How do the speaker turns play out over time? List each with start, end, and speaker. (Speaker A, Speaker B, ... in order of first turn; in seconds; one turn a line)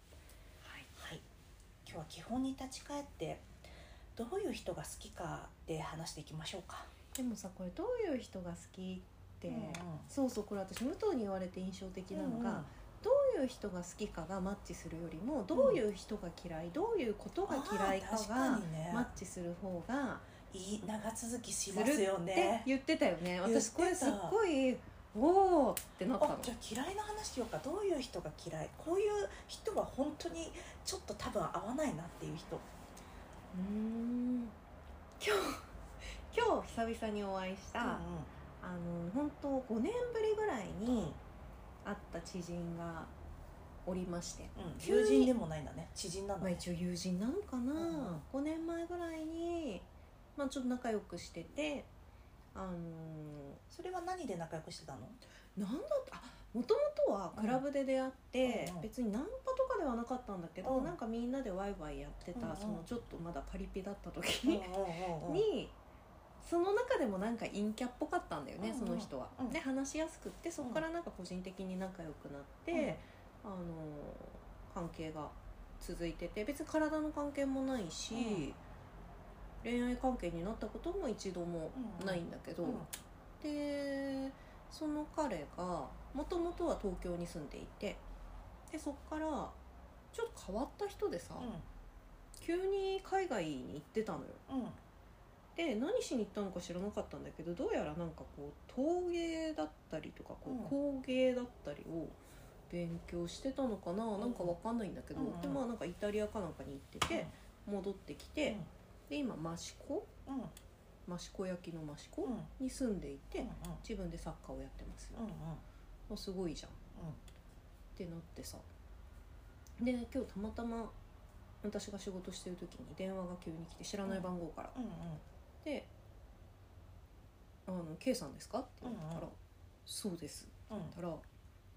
Speaker A: 0.6-0.9
Speaker B: 0.9-1.2
Speaker B: 1.9-3.5
Speaker B: 4.2-6.9
Speaker A: 7.2-20.3
Speaker B: 9.5-10.1
Speaker B: 12.1-12.7
Speaker B: 15.5-15.8
Speaker B: 17.5-19.1
Speaker B: 20.5-22.7
Speaker A: 21.7-26.5
Speaker B: 23.4-24.4
Speaker B: 26.2-32.7
Speaker A: 33.5-34.5
Speaker A: 35.2-35.6
Speaker A: 36.3-38.0
Speaker B: 37.8-38.3
Speaker A: 38.6-41.1
Speaker B: 40.9-41.2
Speaker A: 41.9-43.1
Speaker A: 43.9-45.3
Speaker B: 44.5-46.6
Speaker A: 46.4-51.9
Speaker B: 47.8-48.2
Speaker A: 52.5-53.6
Speaker B: 53.7-55.2
Speaker A: 55.6-64.7
Speaker B: 57.3-57.6
Speaker B: 58.4-58.9
Speaker B: 60.6-60.9
Speaker B: 62.4-62.9
Speaker B: 64.5-65.5
Speaker A: 65.3-65.8
Speaker A: 66.4-78.6
Speaker B: 68.6-69.6
Speaker B: 70.6-70.8
Speaker B: 72.7-73.0
Speaker B: 78.1-78.5
Speaker A: 79.6-82.8
Speaker B: 81.7-82.9
Speaker A: 83.4-88.0
Speaker A: 88.7-89.6
Speaker A: 90.1-91.5
Speaker B: 91.4-91.7
Speaker A: 92.4-94.4
Speaker B: 94.5-94.8
Speaker A: 95.5-102.2
Speaker B: 100.5-100.8
Speaker A: 102.7-110.1
Speaker B: 104.2-104.5
Speaker B: 105.2-105.7
Speaker B: 110.3-110.5
Speaker A: 111.1-115.3
Speaker B: 112.2-112.5
Speaker B: 113.4-113.8
Speaker B: 115.2-115.6
Speaker A: 116.1-116.8
Speaker B: 117.0-117.2
Speaker A: 118.0-118.6
Speaker A: 119.8-121.0
Speaker A: 121.6-124.8
Speaker B: 124.1-125.2
Speaker A: 125.6-125.9
Speaker A: 127.7-129.3
Speaker B: 128.8-129.3
Speaker A: 129.9-131.2
Speaker B: 130.7-131.0